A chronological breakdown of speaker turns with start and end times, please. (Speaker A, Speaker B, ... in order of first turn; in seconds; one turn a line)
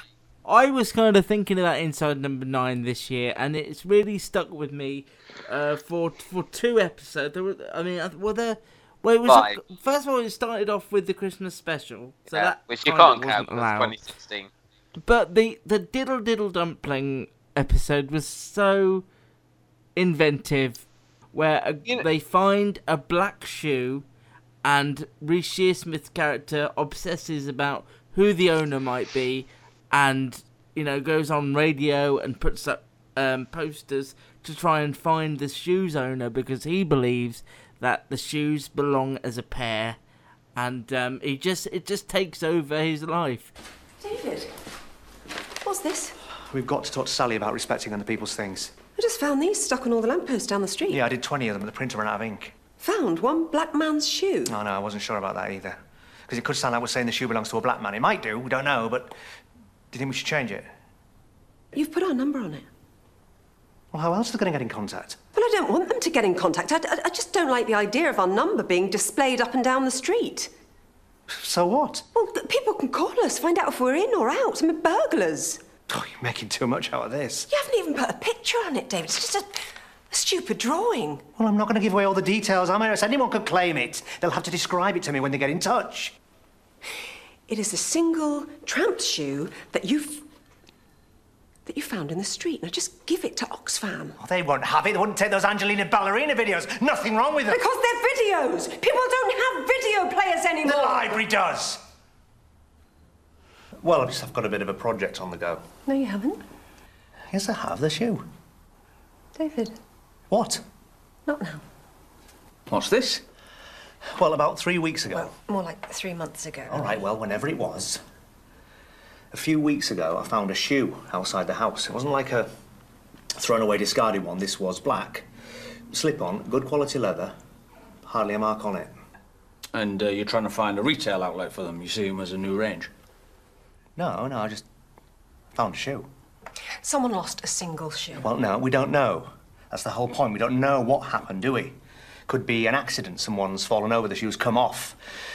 Speaker A: 0.5-14.0
Speaker B: 9.3-9.6
Speaker B: 12.3-14.5
Speaker A: 15.0-19.1
Speaker A: 20.0-24.1
Speaker A: 24.6-40.0
Speaker A: 40.6-43.5
Speaker C: 44.0-44.5
Speaker C: 45.6-46.1
Speaker D: 46.5-48.8
Speaker C: 49.0-51.0
Speaker D: 50.9-52.5
Speaker C: 52.8-54.5
Speaker D: 54.5-59.1
Speaker D: 59.9-60.7
Speaker C: 61.7-62.7
Speaker D: 63.9-65.2
Speaker C: 65.3-70.5
Speaker D: 71.3-72.0
Speaker C: 72.1-75.6
Speaker D: 75.9-77.5
Speaker C: 77.5-79.6
Speaker C: 80.1-81.3
Speaker D: 81.3-86.1
Speaker C: 87.5-90.2
Speaker C: 91.7-94.2
Speaker D: 94.2-97.6
Speaker C: 97.5-101.2
Speaker D: 100.6-101.8
Speaker D: 103.8-105.6
Speaker C: 105.9-106.4
Speaker D: 107.3-108.2
Speaker C: 109.4-109.8
Speaker D: 110.3-110.6
Speaker C: 111.3-111.6
Speaker E: 112.7-113.2
Speaker D: 114.2-115.3
Speaker C: 115.1-116.9
Speaker D: 116.7-118.0
Speaker D: 119.3-122.5
Speaker D: 123.3-125.3
Speaker D: 125.9-127.3
Speaker D: 128.1-128.9
Speaker E: 129.7-132.9
Speaker D: 134.0-134.7
Speaker D: 135.5-136.1
Speaker C: 136.8-138.3
Speaker D: 138.2-141.8
Speaker D: 142.3-145.0